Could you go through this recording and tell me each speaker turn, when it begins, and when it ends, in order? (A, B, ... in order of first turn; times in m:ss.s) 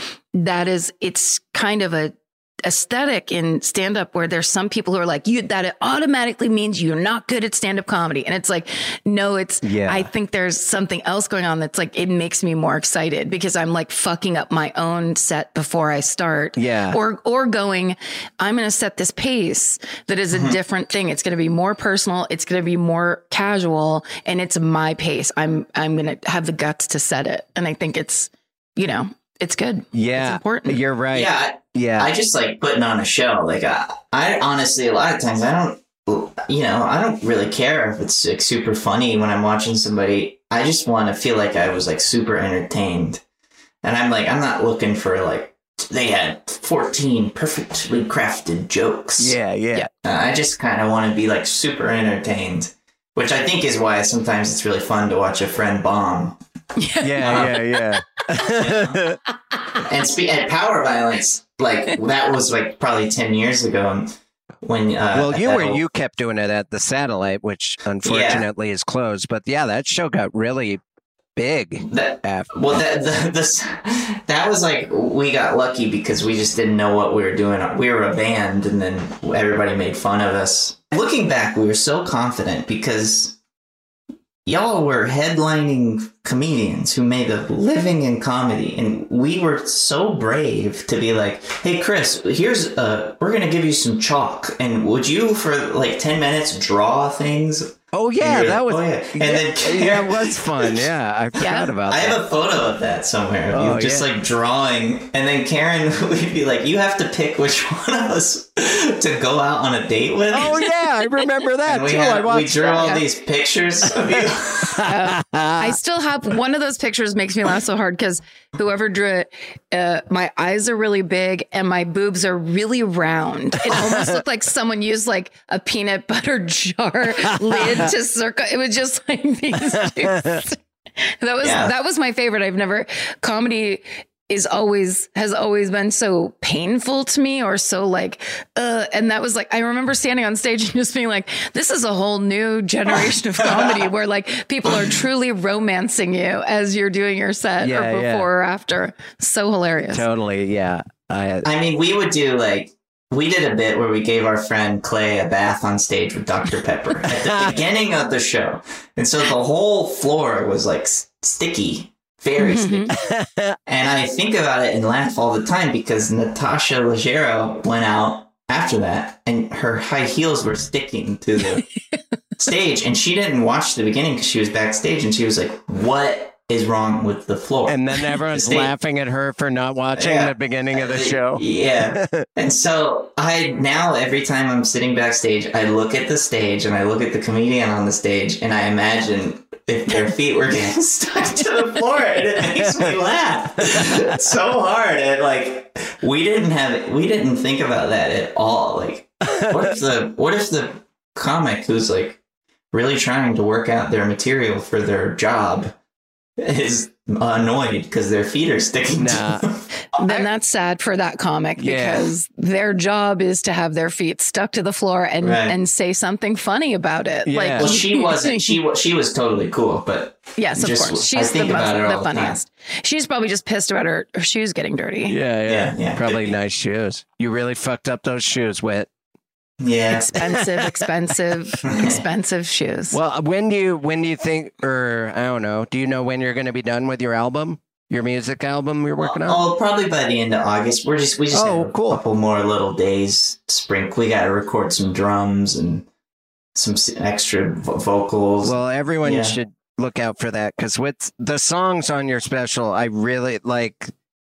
0:00.3-0:30.8 A
0:09.6-0:10.1 B
0:16.6-0:17.0 B
0:29.9-0:32.1 B
0:31.1-0:43.2 C
0:43.8-0:49.4 C
0:49.2-0:49.9 B
0:50.0-0:56.4 C
0:56.8-0:57.2 A
0:57.0-0:59.2 B
0:57.2-0:57.6 C
0:58.6-0:59.0 C
0:59.8-1:05.8 C
1:05.1-1:10.8 B
1:08.0-1:08.5 C
1:11.4-1:12.5 B
1:11.9-1:23.4 C
1:24.4-1:40.9 C
1:37.9-1:42.2 B
1:41.4-1:41.7 A
1:41.8-1:50.6 C
1:43.5-1:44.1 B
1:50.3-1:52.8 B
1:51.6-1:54.8 C
1:52.7-1:53.0 A
1:54.8-1:55.8 B
1:54.8-2:10.6 A
2:03.7-2:04.2 B
2:07.5-2:07.9 B
2:09.8-2:10.4 B
2:11.2-2:30.0 A
2:11.4-2:11.7 C
2:23.4-2:23.7 C
2:27.6-2:28.3 B
2:29.9-2:31.4 B
2:31.4-2:43.0 C
2:37.1-2:37.6 B
2:42.4-2:42.9 A
2:42.9-2:43.6 B
2:43.7-2:51.7 C
2:52.4-2:58.7 C
2:57.7-3:02.2 B
3:00.0-3:22.2 C
3:12.6-3:13.0 B
3:13.6-3:14.1 B
3:19.3-3:19.7 B
3:22.7-3:25.7 C
3:26.4-3:30.3 C
3:29.0-3:29.4 B
3:29.8-3:38.6 A
3:31.6-3:32.1 B
3:35.2-3:35.5 C
3:37.2-3:37.7 B
3:37.6-3:42.4 C
3:40.4-3:45.2 A
3:45.0-3:48.9 B
3:45.5-3:46.3 C
3:49.6-3:50.2 C
3:49.9-3:53.0 A
3:50.3-3:50.9 B
3:51.6-3:52.0 C
3:52.9-3:59.4 B
3:59.0-4:05.8 C
4:01.3-4:02.0 B
4:06.6-4:09.4 C
4:08.4-4:13.9 B